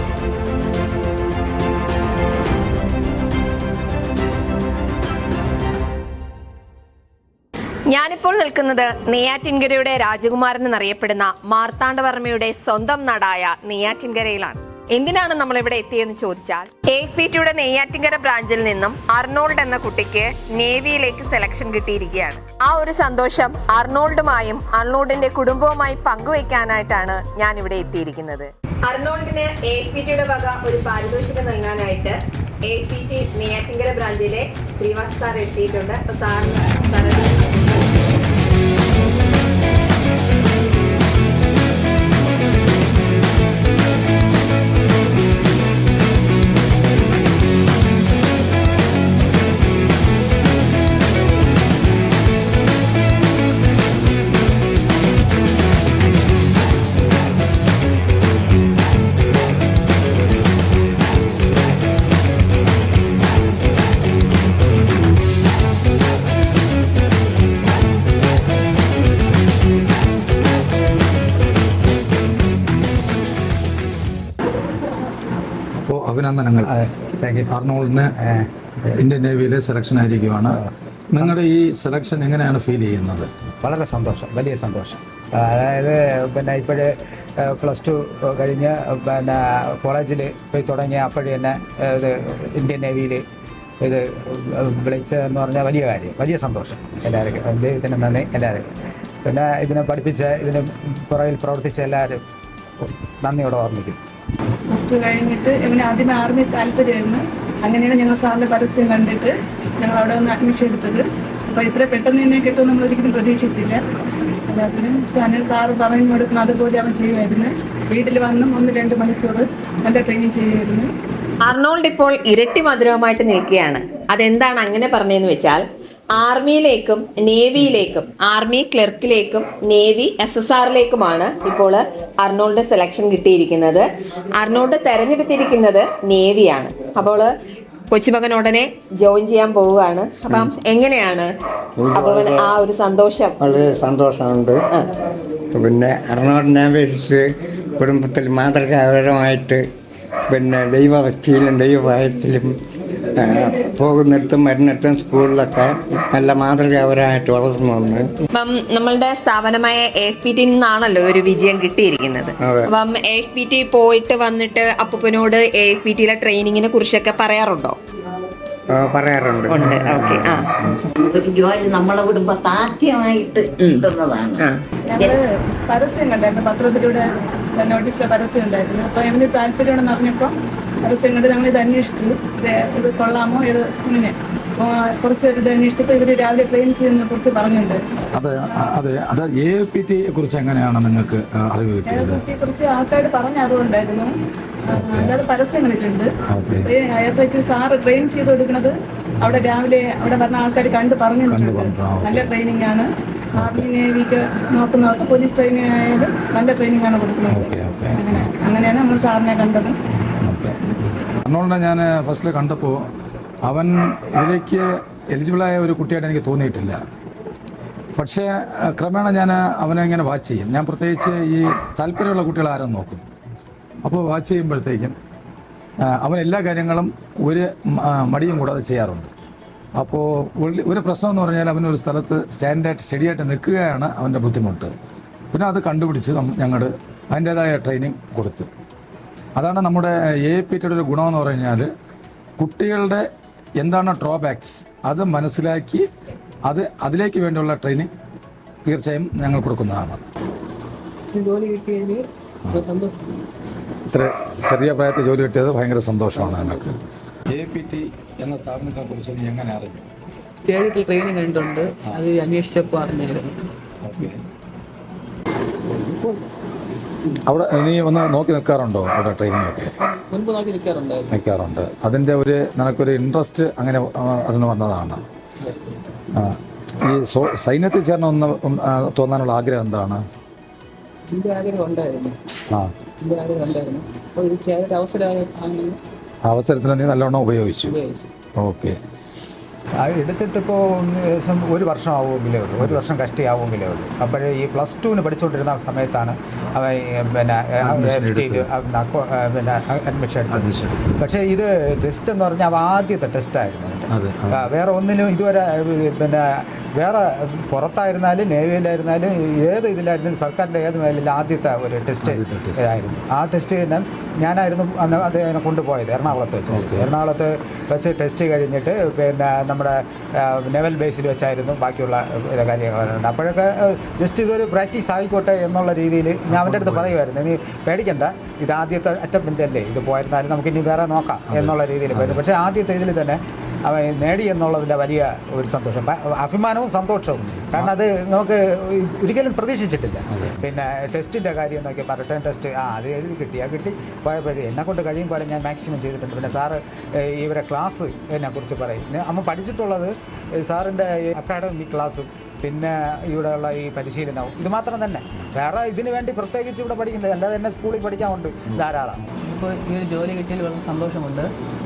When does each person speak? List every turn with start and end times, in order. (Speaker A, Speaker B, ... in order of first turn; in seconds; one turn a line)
Speaker A: 7.9-37.6
Speaker B: 75.8-76.8
Speaker C: 76.7-77.5
Speaker B: 77.5-78.1
Speaker C: 78.2-78.5
Speaker B: 79.0-80.6
Speaker B: 81.1-83.3
Speaker C: 83.6-93.2
Speaker C: 93.8-98.7
Speaker C: 99.2-102.2
Speaker C: 102.8-104.0
Speaker D: 104.7-113.8
Speaker D: 114.5-120.9
Speaker A: 121.4-125.6
Speaker A: 126.1-137.3
Speaker A: 137.9-141.3
Speaker E: 141.8-142.5
Speaker A: 141.9-143.4
Speaker E: 143.4-144.6
Speaker E: 145.6-147.2
Speaker E: 147.8-149.6
Speaker E: 150.3-152.5
Speaker E: 153.2-158.0
Speaker A: 158.3-167.8
Speaker E: 168.7-170.3
Speaker A: 169.5-170.5
Speaker F: 171.1-173.5
Speaker F: 174.0-174.4
Speaker A: 174.4-174.6
Speaker D: 174.9-187.8
Speaker B: 188.2-192.2
Speaker D: 191.9-194.1
Speaker D: 194.7-196.1
Speaker B: 194.7-195.2
Speaker B: 196.3-196.7
Speaker D: 196.7-209.8
Speaker B: 201.3-202.3
Speaker B: 203.4-203.7
Speaker B: 207.3-208.2
Speaker B: 210.2-210.6
Speaker B: 211.2-212.8
Speaker B: 213.4-216.8
Speaker B: 218.0-223.0
Speaker B: 223.8-225.0
Speaker B: 225.8-229.1
Speaker B: 229.8-234.7
Speaker B: 235.3-238.5
Speaker B: 239.4-241.7
Speaker B: 242.4-243.1
Speaker B: 243.6-245.8
Speaker B: 246.5-247.9
Speaker B: 248.7-250.0
Speaker G: 251.1-252.9
Speaker B: 253.9-256.8
Speaker G: 256.1-256.7
Speaker B: 257.3-259.9
Speaker G: 260.4-263.4
Speaker B: 263.8-264.2
Speaker G: 265.7-266.2
Speaker B: 267.3-269.7
Speaker G: 269.8-271.2
Speaker B: 271.1-275.0
Speaker B: 276.1-280.0
Speaker G: 281.1-282.2
Speaker G: 283.0-285.8
Speaker B: 286.3-287.8
Speaker G: 287.7-288.1
Speaker B: 288.4-288.8
Speaker C: 289.8-359.0
Speaker B: 297.7-298.5
Speaker B: 300.3-301.0
Speaker B: 303.9-304.5
Speaker B: 312.1-312.7
Speaker B: 316.6-316.9
Speaker B: 326.3-327.0
Speaker B: 331.3-332.2
Speaker B: 337.2-337.7
Speaker B: 340.1-340.4
Speaker G: 359.2-361.3